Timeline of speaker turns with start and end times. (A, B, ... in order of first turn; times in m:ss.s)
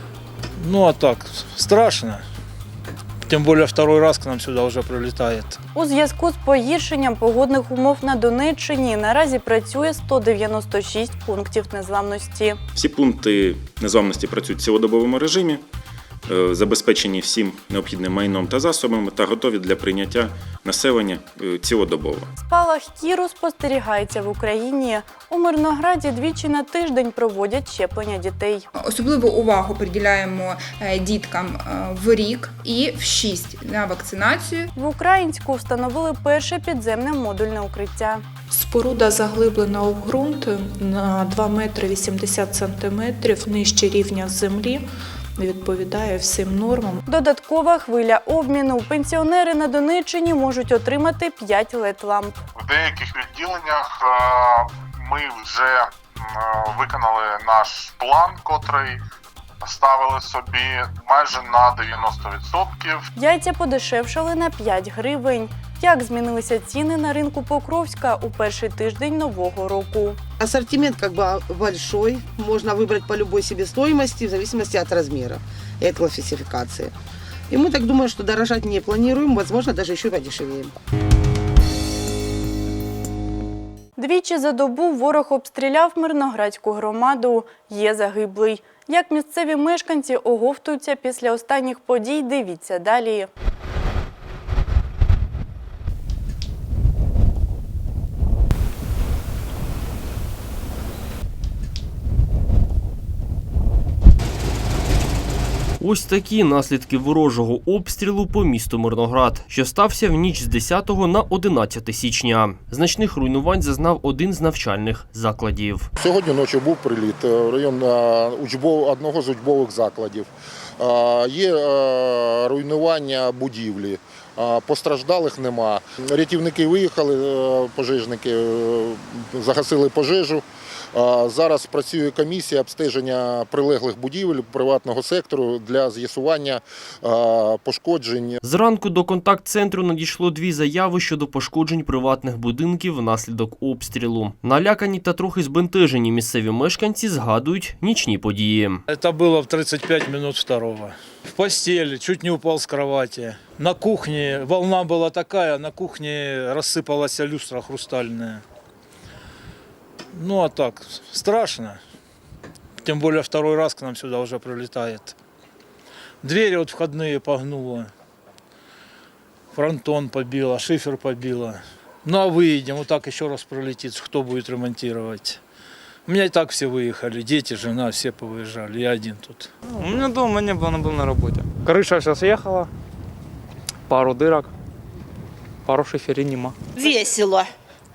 0:00.6-0:02.2 A
0:03.3-0:05.6 A
0:05.7-0:12.6 B
0:12.8-0:15.6 C
0:16.3-0:22.3 C
0:22.4-0:28.7 B
0:28.8-0:34.7 D
0:34.7-0:38.2 B
0:38.5-0:44.8 E
0:45.4-0:47.0 E
0:47.0-0:52.3 B
0:52.6-0:59.0 F
0:59.6-1:03.0 F
1:03.2-1:10.2 B
1:10.4-1:16.9 G
1:17.5-1:20.7 G
1:24.0-1:33.3 B
1:45.8-1:55.9 H
1:56.0-2:00.3 I
2:00.8-2:18.4 I
2:18.4-2:28.8 H
2:28.9-2:38.4 A
2:40.1-2:41.8 A
2:42.8-2:45.1 A
2:46.2-2:47.9 A
2:49.5-2:55.4 A
2:56.1-2:59.5 A
2:59.7-3:02.7 J
3:03.9-3:04.5 J
3:05.6-3:07.4 J